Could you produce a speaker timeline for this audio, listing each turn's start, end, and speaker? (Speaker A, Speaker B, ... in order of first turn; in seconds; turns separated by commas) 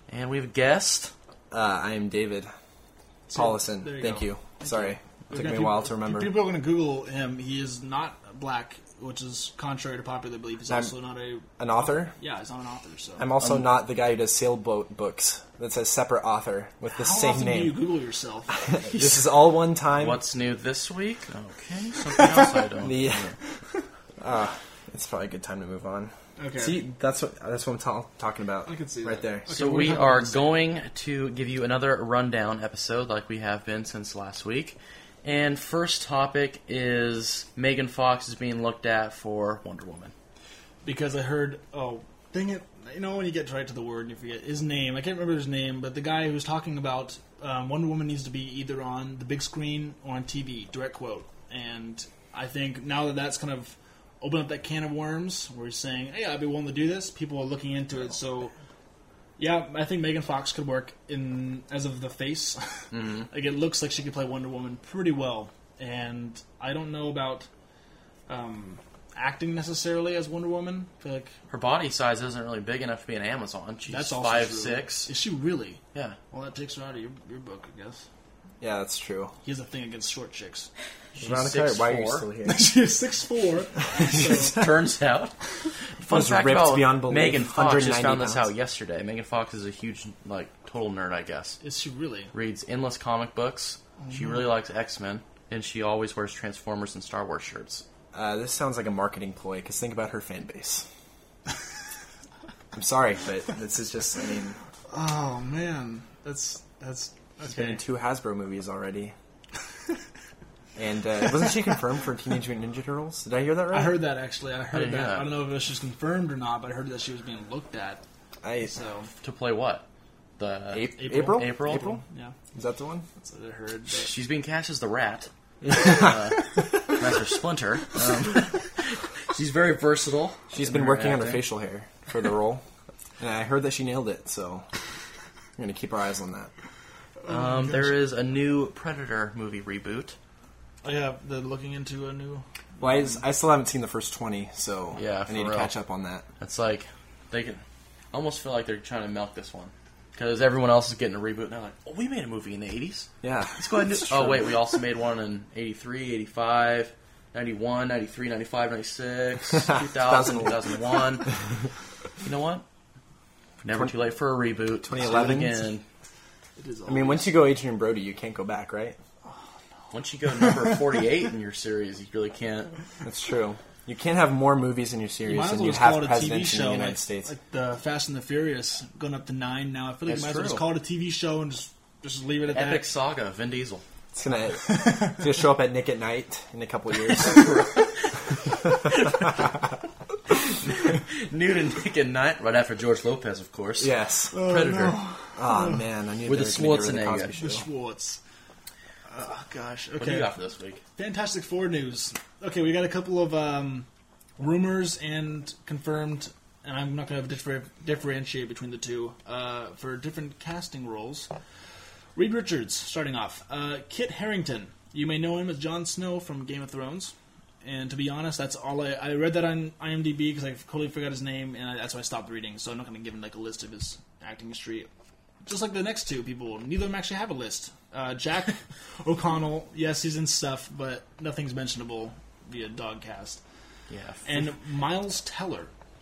Speaker A: 0.1-1.1, Speaker B: 1.5-2.5, Speaker C: 3.3-13.3, Speaker B: 3.3-6.5, Speaker B: 10.7-10.9, Speaker B: 11.5-12.1, Speaker B: 13.2-17.8, Speaker C: 16.9-19.2, Speaker B: 18.5-20.2, Speaker A: 20.0-23.3, Speaker B: 22.8-23.4, Speaker B: 24.2-29.5, Speaker C: 26.4-26.8, Speaker C: 28.6-30.5, Speaker A: 29.5-40.1, Speaker C: 40.8-58.5, Speaker C: 59.4-67.5, Speaker A: 62.9-63.3, Speaker C: 68.3-71.3, Speaker A: 71.5-75.1, Speaker C: 73.9-75.8, Speaker C: 76.3-78.0, Speaker B: 78.6-79.3, Speaker C: 79.5-80.7, Speaker A: 81.1-82.3, Speaker B: 81.2-82.7, Speaker C: 82.5-84.7, Speaker B: 84.0-84.7, Speaker A: 84.2-91.6, Speaker B: 86.1-88.5, Speaker C: 91.6-92.3, Speaker A: 92.3-97.8, Speaker C: 94.0-94.5, Speaker B: 98.1-100.9, Speaker B: 102.8-104.6, Speaker C: 104.9-107.8, Speaker B: 107.4-109.2, Speaker B: 110.8-114.0, Speaker C: 113.7-118.0, Speaker A: 114.7-115.4, Speaker B: 118.4-118.8, Speaker C: 118.7-119.1, Speaker A: 119.2-119.8, Speaker A: 120.4-121.9, Speaker B: 120.7-122.0, Speaker C: 121.0-122.4, Speaker B: 122.5-123.1, Speaker C: 123.2-124.1, Speaker A: 124.0-131.5, Speaker B: 125.6-127.0, Speaker B: 130.5-132.6, Speaker B: 133.2-134.7, Speaker B: 135.6-136.5, Speaker C: 137.2-138.0, Speaker A: 137.3-140.2, Speaker C: 140.8-143.2, Speaker B: 142.8-146.3, Speaker A: 145.0-145.7, Speaker A: 146.4-147.6, Speaker A: 148.1-161.3, Speaker B: 153.2-154.6, Speaker B: 159.6-161.3, Speaker A: 162.2-162.6, Speaker A: 163.6-165.8, Speaker B: 164.8-165.7, Speaker C: 166.6-167.4, Speaker B: 166.9-169.0, Speaker C: 169.3-171.0, Speaker A: 169.9-172.8, Speaker B: 173.0-177.3, Speaker C: 175.3-182.9, Speaker A: 180.1-180.7, Speaker A: 182.5-183.8, Speaker B: 184.1-187.6, Speaker A: 187.1-189.6, Speaker A: 190.3-195.0, Speaker B: 193.8-194.3, Speaker C: 194.3-195.8, Speaker B: 195.4-197.6, Speaker A: 196.3-197.3, Speaker C: 197.4-198.2, Speaker C: 199.1-200.3, Speaker A: 200.0-200.8, Speaker C: 201.0-203.9, Speaker C: 204.4-211.3, Speaker C: 212.2-224.9, Speaker C: 225.4-233.4, Speaker A: 233.9-234.5, Speaker C: 234.2-235.7